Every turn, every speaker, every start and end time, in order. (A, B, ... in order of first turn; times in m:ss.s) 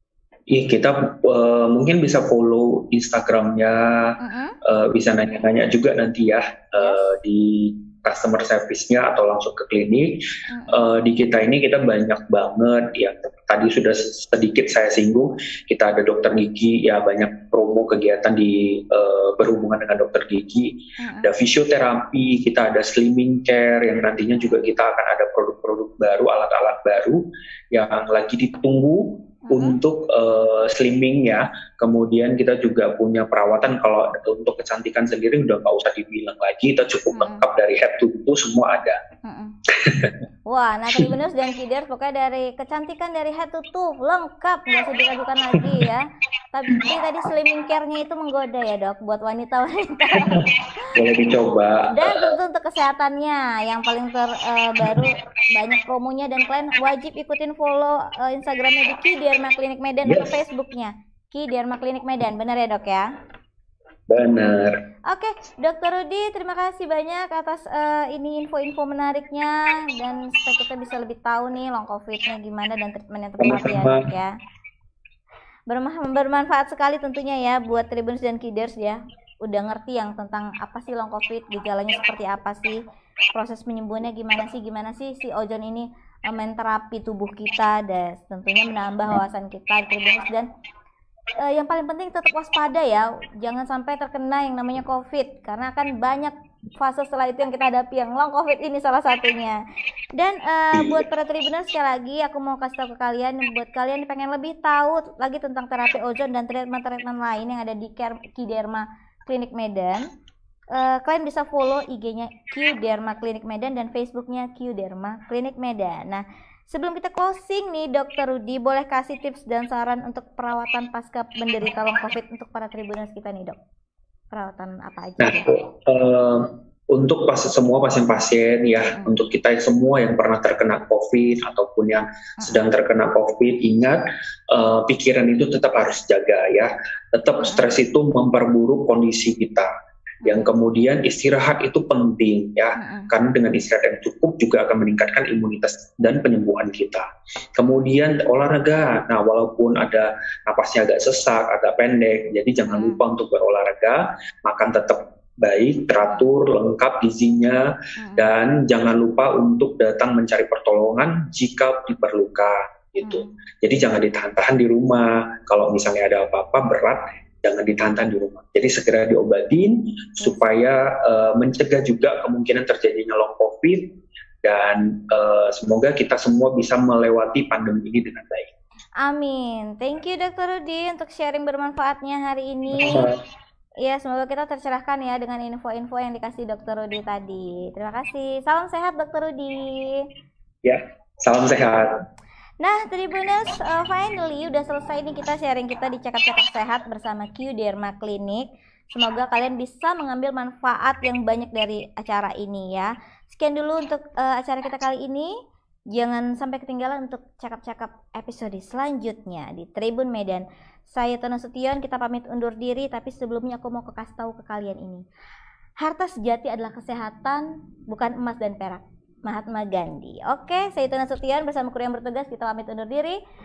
0:00.5-0:39.0 A
0:04.2-0:04.6 B
0:06.8-0:07.1 B
0:10.5-0:10.9 B
0:21.0-0:21.3 B
0:29.4-0:29.8 B
0:37.1-0:37.4 B
0:39.2-0:39.6 B
0:39.7-0:40.2 A
0:40.5-0:50.4 B
0:45.6-0:45.8 A
0:50.2-0:52.3 A
0:51.9-1:03.1 B
1:00.0-1:00.3 A
1:04.1-1:04.8 A
1:05.1-1:14.3 B
1:13.4-1:14.1 A
1:15.7-1:22.8 B
1:23.3-1:30.5 B
1:31.4-1:39.6 B
1:40.2-1:50.1 B
1:40.7-1:41.0 A
1:50.7-2:03.6 B
2:04.3-2:05.5 B
2:05.2-2:19.7 A
2:17.4-2:17.7 B
2:20.2-2:20.5 B
2:20.2-2:58.5 A
2:22.8-2:23.1 B
2:32.6-2:33.0 B
2:38.0-2:38.3 B
2:43.0-2:43.3 B
2:50.2-2:50.5 B
2:59.0-3:03.1 B
3:02.7-3:03.2 A
3:03.8-3:10.1 B
3:10.6-3:11.9 A
3:12.6-3:25.3 B
3:25.9-3:35.0 B
3:35.8-3:43.2 B